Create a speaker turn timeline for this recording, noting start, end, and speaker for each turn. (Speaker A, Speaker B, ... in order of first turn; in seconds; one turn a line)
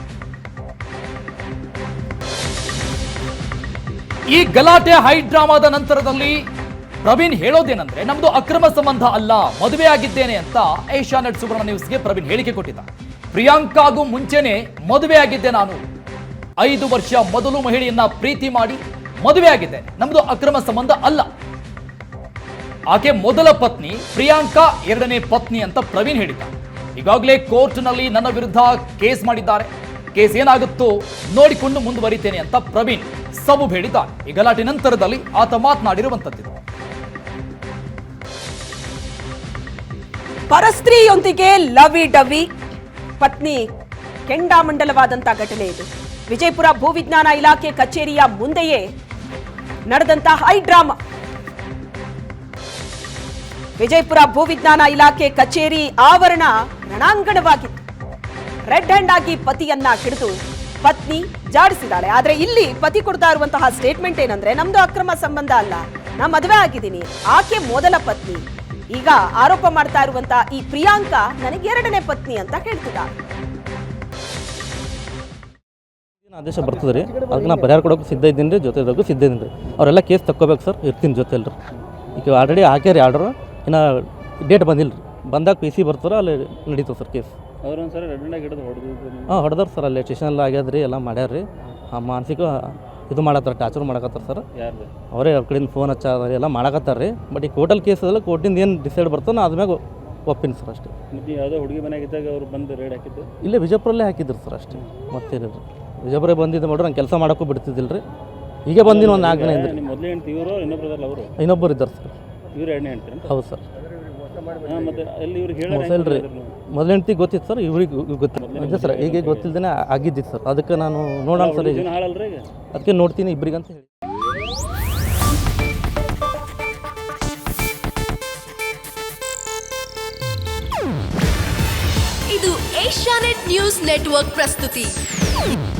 Speaker A: 4.3-6.4
Speaker A: 7.0-15.8
Speaker A: 16.6-21.3
Speaker A: 22.9-36.5
Speaker B: 40.5-42.5
Speaker B: 43.2-43.6
Speaker B: 44.3-48.8
Speaker B: 49.9-51.0
Speaker B: 53.8-57.8
Speaker B: 58.7-73.1
Speaker C: 76.3-81.5
Speaker C: 82.2-87.3
Speaker D: 87.6-89.4
Speaker C: 89.3-94.4
Speaker D: 94.5-94.9
Speaker C: 95.1-100.9
Speaker D: 101.1-103.3
Speaker C: 103.4-108.0
Speaker C: 108.7-109.8
Speaker D: 108.8-111.3
Speaker C: 111.4-112.1
Speaker D: 112.5-113.3
Speaker C: 113.3-113.6
Speaker D: 114.6-116.5
Speaker C: 115.7-121.9
Speaker D: 118.3-119.5
Speaker D: 121.3-122.5
Speaker C: 122.7-123.8
Speaker E: 132.3-134.9